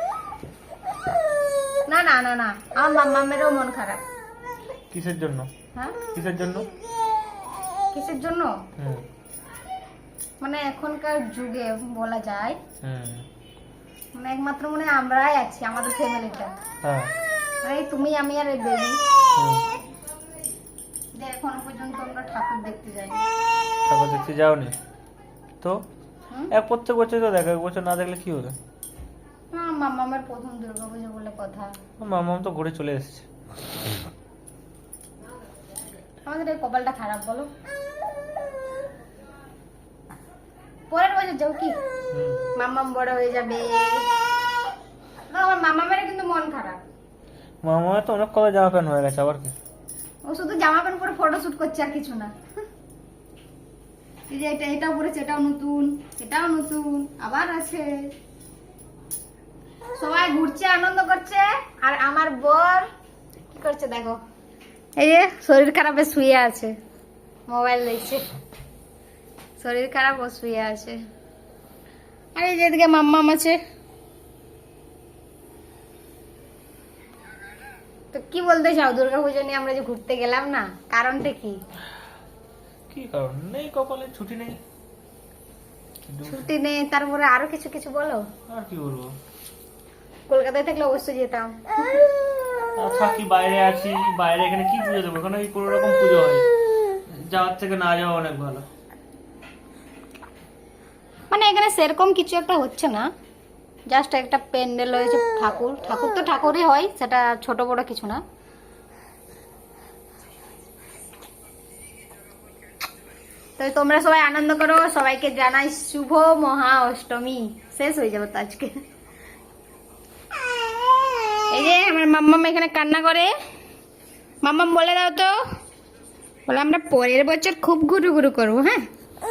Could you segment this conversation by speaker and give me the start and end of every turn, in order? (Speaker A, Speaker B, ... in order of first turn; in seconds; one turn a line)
Speaker A: 1.9-4.0
Speaker B: 4.9-5.5
Speaker B: 6.1-6.7
Speaker A: 7.9-8.6
Speaker B: 8.8-9.0
Speaker A: 10.4-12.6
Speaker B: 12.8-13.3
Speaker A: 14.2-16.6
Speaker B: 16.8-17.1
Speaker A: 17.6-19.0
Speaker B: 19.3-19.6
Speaker A: 21.2-23.2
Speaker B: 23.9-24.8
Speaker B: 26.5-28.6
Speaker A: 29.5-31.7
Speaker B: 32.0-33.2
Speaker A: 36.2-37.5
Speaker A: 40.9-41.8
Speaker B: 42.1-42.5
Speaker A: 42.5-44.1
Speaker A: 45.3-46.8
Speaker B: 47.6-49.5
Speaker A: 50.2-52.3
Speaker A: 54.3-58.1
Speaker A: 60.0-62.9
Speaker A: 63.5-64.2
Speaker A: 65.0-66.8
Speaker A: 67.5-68.3
Speaker A: 69.6-71.0
Speaker A: 72.3-73.6
Speaker A: 78.1-81.6
Speaker B: 82.9-84.6
Speaker B: 86.1-86.5
Speaker A: 86.2-88.3
Speaker B: 88.5-89.2
Speaker A: 90.3-92.0
Speaker B: 92.8-96.5
Speaker B: 97.1-98.7
Speaker A: 101.3-103.1
Speaker A: 103.9-108.2
Speaker A: 113.6-118.8
Speaker A: 121.5-123.3
Speaker A: 124.4-125.4
Speaker A: 126.5-128.8